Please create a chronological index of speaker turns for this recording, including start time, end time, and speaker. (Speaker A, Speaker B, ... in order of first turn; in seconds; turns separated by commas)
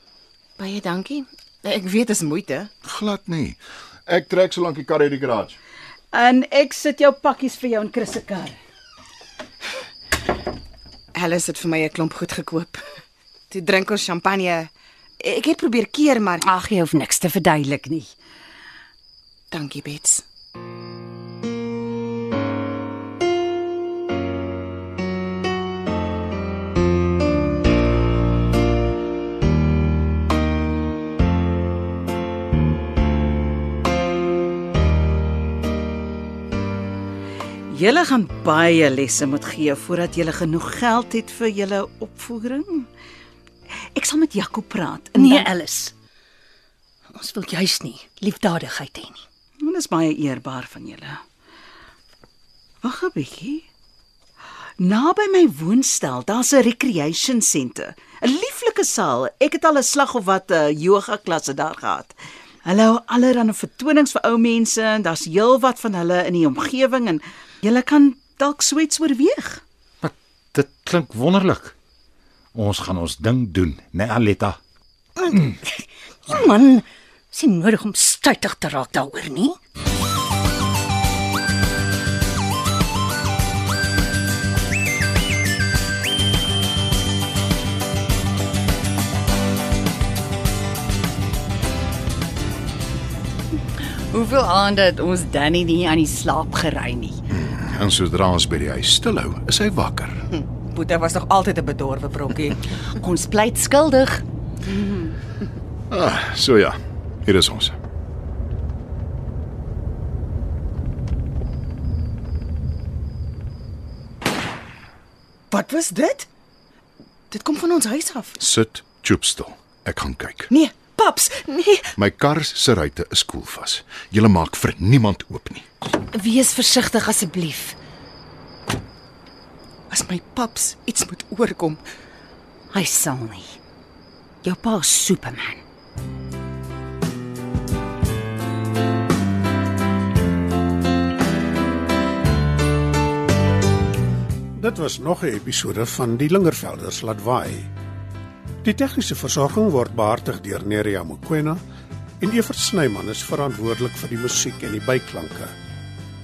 Speaker A: 0.6-2.7, Speaker B: 2.8-5.6, Speaker C: 6.1-8.6, Speaker A: 11.1-12.8, Speaker A: 13.5-16.5, Speaker D: 16.4-18.1, Speaker A: 19.5-20.2, Speaker C: 37.7-42.9, Speaker C: 43.9-45.5, Speaker E: 45.1-45.9, Speaker E: 47.1-49.2, Speaker C: 49.6-51.2, Speaker C: 52.8-53.6, Speaker C: 54.8-69.6, Speaker F: 70.0-71.7, Speaker F: 72.5-74.6, Speaker E: 75.2-79.6, Speaker D: 94.1-97.2, Speaker B: 97.3-100.2, Speaker A: 100.3-102.6, Speaker D: 103.0-104.2, Speaker A: 104.7-105.1, Speaker B: 105.9-107.7, Speaker A: 115.5-116.3, Speaker A: 117.3-118.4, Speaker B: 118.4-120.5, Speaker A: 120.5-121.9, Speaker B: 122.0-125.6, Speaker D: 126.1-127.8, Speaker A: 129.9-131.8, Speaker D: 132.7-133.5, Speaker D: 134.4-135.6, Speaker G: 144.6-147.7, Speaker G: 148.6-151.6, Speaker G: 152.2-155.5